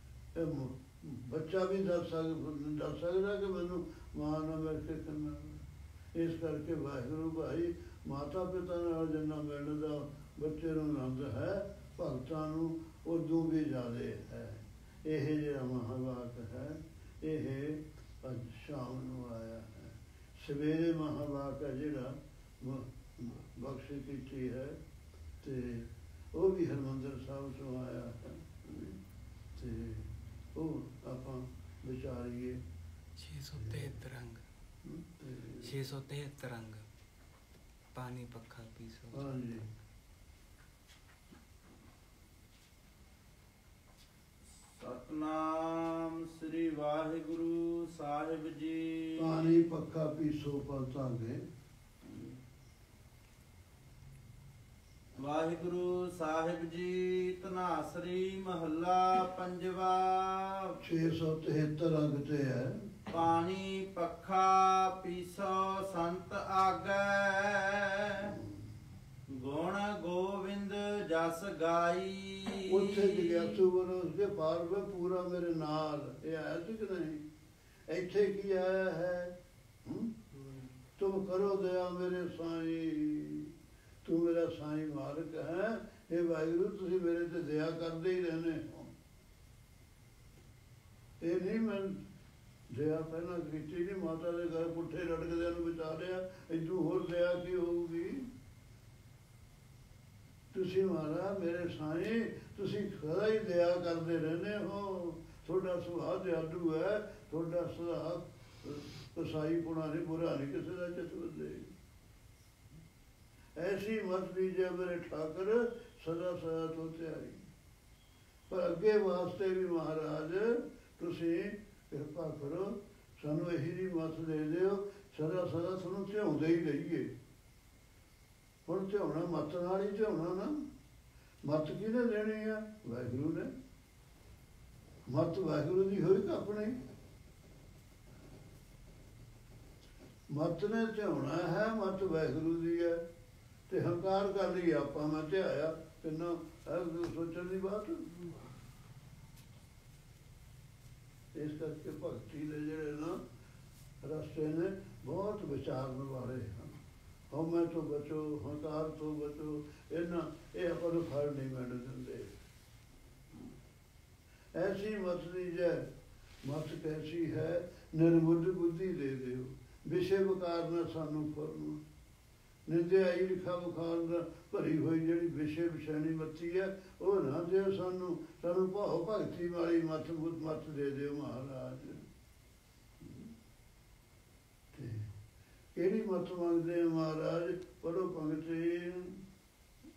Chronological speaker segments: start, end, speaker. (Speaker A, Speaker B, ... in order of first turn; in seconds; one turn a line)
Speaker A: 0.3-24.8
Speaker A: 25.4-29.0
Speaker A: 29.5-32.6
Speaker B: 33.2-34.4
Speaker A: 34.8-35.6
Speaker B: 35.6-36.8
Speaker B: 37.9-39.3
Speaker A: 39.1-39.6
Speaker C: 44.8-49.5
Speaker A: 49.2-51.4
Speaker C: 55.2-60.8
Speaker A: 60.8-62.9
Speaker C: 63.1-68.3
Speaker C: 69.3-73.6
Speaker A: 72.7-77.2
Speaker A: 77.9-80.2
Speaker A: 81.0-83.5
Speaker A: 84.0-88.9
Speaker A: 91.2-92.0
Speaker A: 92.7-98.3
Speaker A: 100.5-111.7
Speaker A: 113.6-117.5
Speaker A: 118.5-127.1
Speaker A: 128.7-130.6
Speaker A: 131.4-133.5
Speaker A: 135.1-136.8
Speaker A: 140.3-143.0
Speaker A: 143.7-148.1
Speaker A: 151.3-153.2
Speaker A: 154.0-156.8
Speaker A: 157.3-162.3
Speaker A: 164.5-165.9
Speaker A: 166.4-171.8
Speaker A: 172.7-182.0
Speaker A: 183.0-183.3
Speaker A: 184.7-185.1
Speaker A: 185.7-189.2